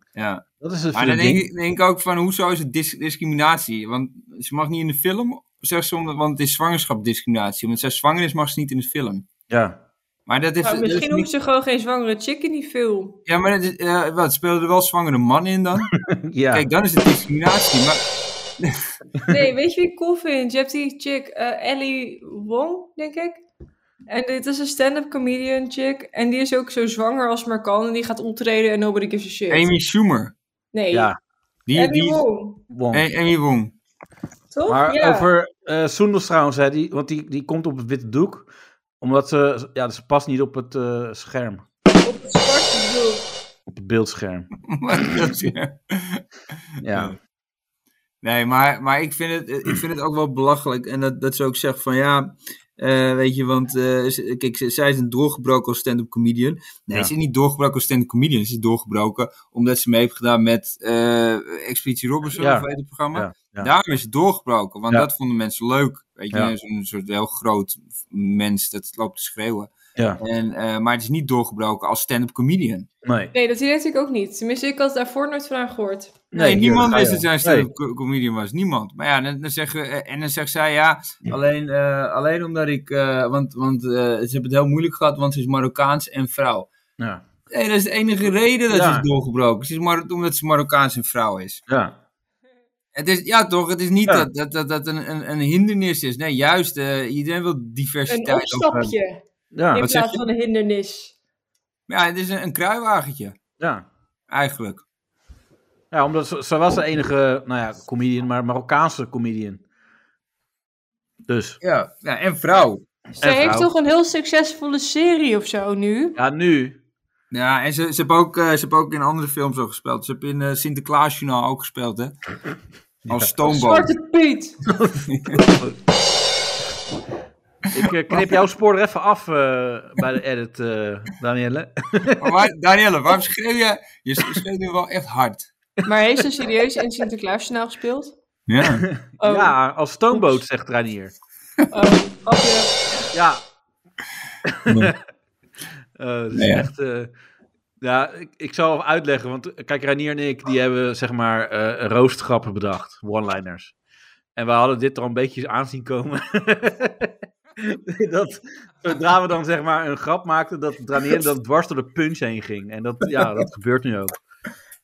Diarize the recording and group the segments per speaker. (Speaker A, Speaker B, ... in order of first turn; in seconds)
Speaker A: 0.1-9.3, 10.3-11.3, 13.2-15.9, 16.5-18.0, 29.5-30.3, 31.7-32.2, 32.9-33.7, 44.7-47.1, 48.2-72.9, 76.3-86.7, 87.5-91.6, 92.9-98.9, 99.8-100.2, 101.9-103.4, 104.3-104.8, 111.6-112.8, 117.3-122.2, 123.1-123.9, 125.1-125.4, 128.1-128.4, 132.2-135.5, 138.5-138.8, 144.7-144.9, 146.3-146.7
Speaker B: 0.6-1.4, 9.5-9.8, 16.0-16.6, 30.9-31.2, 32.7-33.0, 34.7-38.5, 39.0-41.6, 43.7-44.5, 46.8-47.1, 62.4-63.7, 70.0-70.2, 73.0-73.3, 76.3-77.7, 87.0-87.2, 88.7-89.0, 91.7-92.0, 99.5-99.8, 103.6-103.8, 105.9-109.6, 111.3-111.6, 113.2-113.7, 116.2-116.8, 123.0-123.3, 124.7-125.8, 127.7-132.3, 138.9-141.1, 143.1-143.4, 144.5-144.9, 146.0-147.1, 147.8-153.7, 154.3-164.2
Speaker C: 10.6-13.2, 19.3-23.4, 24.1-29.7, 30.7-31.1, 31.7-32.6, 34.5-35.3, 42.0-43.3, 73.3-76.3, 98.1-101.1, 113.2-116.2, 123.4-124.6, 135.8-138.2, 139.2-139.5, 140.1-140.4, 141.7-143.0